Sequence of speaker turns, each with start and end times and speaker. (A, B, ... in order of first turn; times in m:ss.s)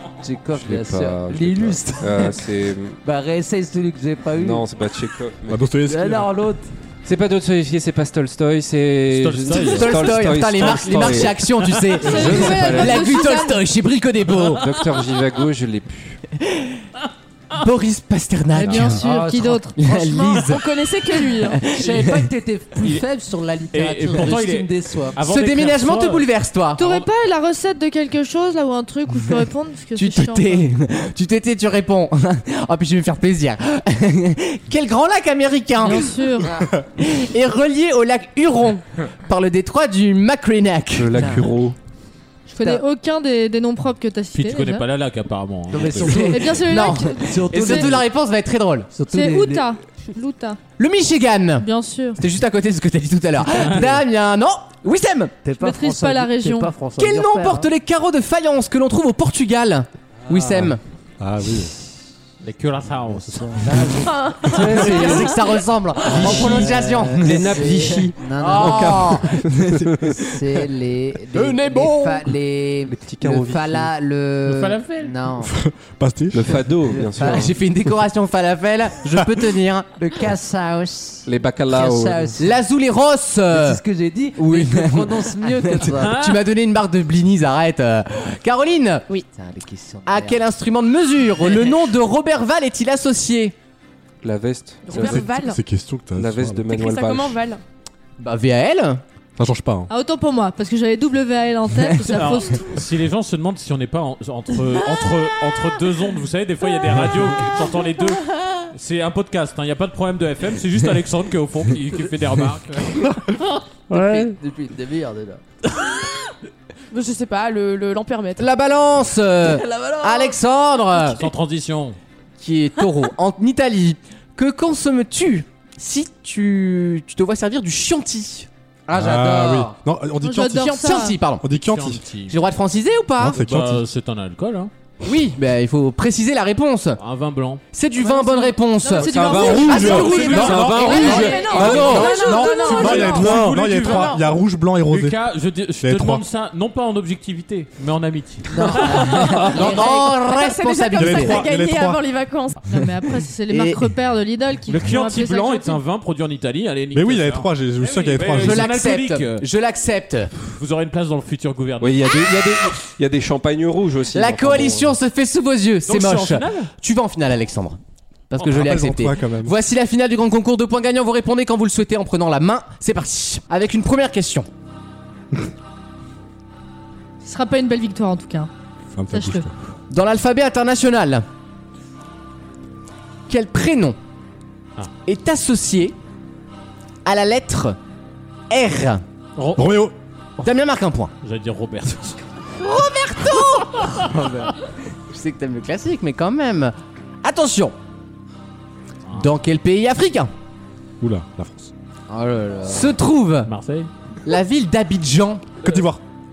0:00.2-0:02.4 A
0:00.5-0:03.0 B
0:03.0-0:04.6 A
0:04.4-0:05.6 B
0:05.5-0:06.3 C
0:05.8-0:06.7 A
0:07.0-0:13.1 B
0:09.1-0:10.0 D
0:09.6-0:14.6 E
0:12.0-0:13.6 F
0:14.5-0:16.2 B
0:16.4-0:16.8 E
0:17.5-0:19.1 E
0:18.5-0:19.7 F
0:18.6-0:18.9 B
0:18.8-0:20.4 A
0:19.8-0:20.7 E
0:20.4-0:21.6 G
0:21.5-0:22.3 E
0:21.7-0:25.2 A
0:23.7-0:26.2 D
0:25.2-0:26.8 E
0:26.8-0:30.7 F
0:29.9-0:36.3 E
0:35.8-0:36.5 F
0:37.0-0:41.2 E
0:40.9-0:41.8 B
0:41.1-0:41.4 A
0:42.5-0:44.8 F
0:42.6-0:42.8 A
0:44.3-0:46.1 D
0:45.7-0:48.1 A
0:46.1-0:47.9 F
0:46.2-0:48.9 E
0:48.9-0:49.7 A
0:49.1-0:50.6 F
0:50.8-0:55.3 E
0:51.6-0:52.2 F
0:55.4-0:57.7 A
0:55.6-0:56.7 F
0:57.0-1:00.8 E
1:00.3-1:00.7 A
1:01.2-1:01.7 C
1:02.4-1:03.9 D
1:03.2-1:05.4 A
1:04.0-1:05.4 G
1:04.4-1:07.4 E
1:06.0-1:09.2 A
1:06.1-1:10.1 B
1:08.4-1:09.5 E
1:10.0-1:15.5 A
1:11.3-1:12.3 E
1:12.9-1:13.9 B
1:14.4-1:15.1 D
1:15.4-1:16.4 C
1:16.3-1:17.6 B
1:16.9-1:17.5 A
1:17.2-1:19.9 E
1:20.0-1:22.6 A
1:21.2-1:22.4 B
1:22.4-1:23.8 E
1:23.5-1:26.2 A
1:24.4-1:29.1 E
1:26.0-1:26.4 D
1:29.3-1:30.4 A
1:30.0-1:33.5 E
1:34.2-1:35.3 B
1:34.8-1:35.6 G
1:34.9-1:36.6 C
1:36.2-1:37.4 B
1:36.7-1:37.6 G
1:38.2-1:39.0 E
1:39.4-1:39.9 C
1:39.9-1:42.7 F
1:42.1-1:54.4 D
1:53.9-1:55.4 A
1:56.9-1:58.5 G
1:58.4-2:01.3 E
1:59.4-2:00.4 A
2:01.0-2:02.0 D
2:02.4-2:08.5 E
2:08.9-2:09.8 A
2:08.9-2:10.8 C
2:10.2-2:11.2 F
2:10.4-2:11.4 E
2:11.4-2:12.0 C
2:11.5-2:12.4 D
2:12.3-2:13.4 E
2:13.2-2:13.8 C
2:13.3-2:14.7 D
2:15.0-2:17.0 E
2:17.0-2:17.6 D
2:17.7-2:22.8 E
2:18.0-2:21.4 F
2:19.0-2:22.1 B
2:19.7-2:20.9 C
2:19.8-2:24.2 G
2:19.8-2:24.2 D
2:21.5-2:25.2 C
2:24.9-2:29.4 D
2:25.8-2:26.2 C
2:28.5-2:30.1 A
2:29.4-2:31.4 E
2:29.5-2:32.6 G
2:30.9-2:32.0 C
2:32.7-2:35.8 F
2:33.5-2:33.8 E
2:34.7-2:39.4 D
2:36.9-2:38.7 C
2:38.4-2:40.3 E
2:40.4-2:42.0 D
2:41.8-2:45.0 B
2:44.1-2:47.8 E
2:45.8-2:46.7 D
2:48.3-2:54.5 E
2:48.4-2:49.5 C
2:57.2-2:58.5 F
2:58.9-2:59.5 C
2:59.1-2:59.5 F
2:59.9-3:01.2 E
3:03.3-3:04.0 E
3:05.0-3:05.9 E
3:07.0-3:07.8 E
3:08.5-3:09.0 E
3:09.4-3:09.8 D
3:09.5-3:09.9 C
3:10.4-3:11.1 E
3:11.2-3:12.2 D
3:12.6-3:14.2 E
3:14.0-3:14.5 A
3:15.1-3:17.7 E
3:19.2-3:20.3 E
3:21.0-3:21.7 C
3:22.1-3:22.9 A
3:22.6-3:23.5 E
3:23.4-3:23.9 D
3:24.2-3:25.6 E
3:25.6-3:26.0 C